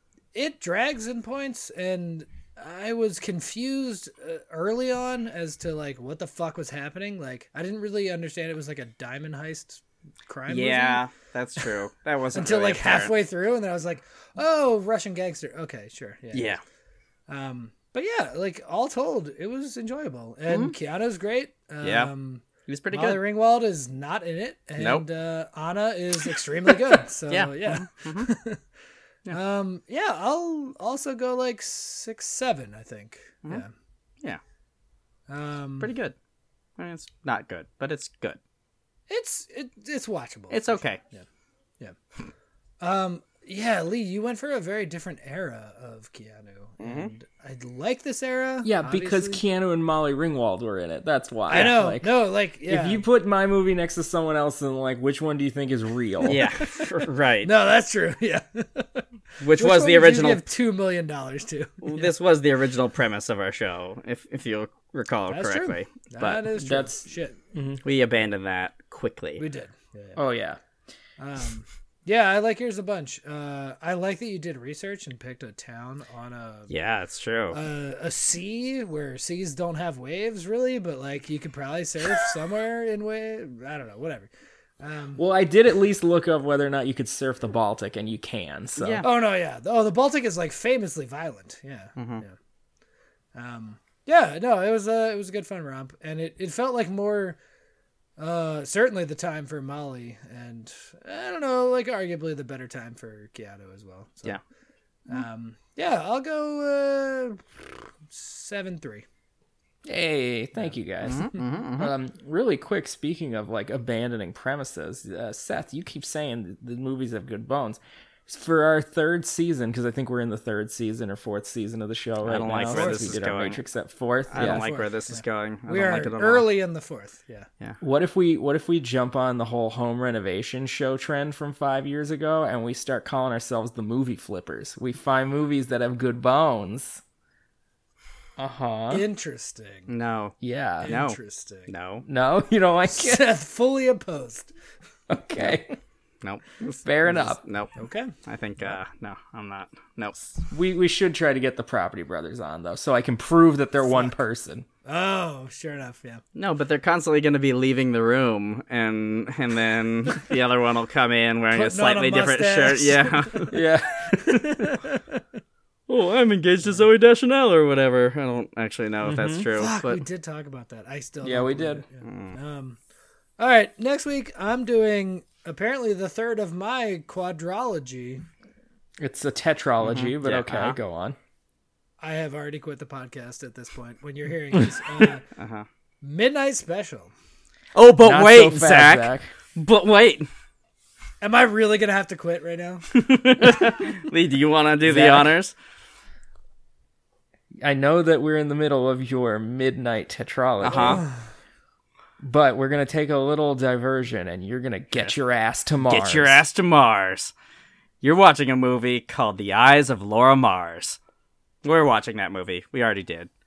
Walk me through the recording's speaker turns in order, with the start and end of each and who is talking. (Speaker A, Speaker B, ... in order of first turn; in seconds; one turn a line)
Speaker A: 0.3-11.0
Speaker B: 10.5-13.1
Speaker A: 12.3-16.6
Speaker B: 16.3-16.6
Speaker A: 17.3-28.6
Speaker B: 20.5-20.7
Speaker B: 21.8-22.1
Speaker B: 22.7-23.2
Speaker B: 24.8-25.1
Speaker B: 26.7-28.3
Speaker A: 29.3-33.7
Speaker A: 35.3-35.9
Speaker B: 35.8-36.1
Speaker B: 36.8-38.4
Speaker A: 39.1-41.2
Speaker B: 40.5-41.0
Speaker A: 42.8-49.4
Speaker B: 46.8-47.1
Speaker C: 48.6-56.4
Speaker A: 51.5-53.0
Speaker B: 56.2-57.5
Speaker A: 56.3-56.9
Speaker A: 57.4-62.1
Speaker B: 59.4-60.4
Speaker B: 61.8-66.4
Speaker A: 65.3-67.4
Speaker C: 66.6-67.8
Speaker B: 67.8-69.4
Speaker A: 69.4-70.2
Speaker C: 70.2-70.6
Speaker A: 71.2-76.7
Speaker B: 76.7-77.6
Speaker A: 77.5-85.2
Speaker C: 85.2-89.0
Speaker B: 88.8-89.0
Speaker A: 89.0-92.3
Speaker B: 92.0-92.2
Speaker A: 93.3-97.4
Speaker A: 98.2-104.4
Speaker A: 105.1-109.0
Speaker C: 109.8-124.6
Speaker B: 111.0-111.9
Speaker B: 122.2-123.6
Speaker A: 122.7-123.2
Speaker B: 124.3-126.5
Speaker A: 124.4-127.5
Speaker C: 127.8-137.0
Speaker C: 138.4-139.0
Speaker A: 138.9-139.9
Speaker B: 139.9-142.1
Speaker C: 140.4-140.9
Speaker A: 140.8-141.7
Speaker C: 142.1-143.3
Speaker A: 142.9-144.5
Speaker C: 145.1-145.8
Speaker B: 146.2-147.7
Speaker C: 146.8-147.4
Speaker A: 147.8-148.1
Speaker B: 148.2-150.2
Speaker C: 150.5-154.7
Speaker A: 153.8-154.2
Speaker A: 154.8-156.2
Speaker B: 156.3-163.6
Speaker A: 161.5-163.6
Speaker C: 163.5-164.8
Speaker A: 164.1-165.2
Speaker B: 165.9-170.0
Speaker C: 169.1-169.4
Speaker A: 169.5-172.8
Speaker C: 171.2-171.8
Speaker B: 172.0-172.4
Speaker A: 173.4-178.2
Speaker C: 179.0-181.2
Speaker B: 179.8-180.8
Speaker A: 182.0-185.3
Speaker B: 185.4-185.7
Speaker A: 186.0-187.1
Speaker B: 187.7-190.3
Speaker C: 188.0-189.3
Speaker A: 191.2-192.9
Speaker B: 192.9-195.5
Speaker C: 194.9-195.3
Speaker C: 197.6-201.0
Speaker B: 200.6-201.1
Speaker A: 200.7-201.1
Speaker C: 202.2-206.4
Speaker B: 205.8-207.3
Speaker B: 208.0-211.0
Speaker B: 211.6-213.3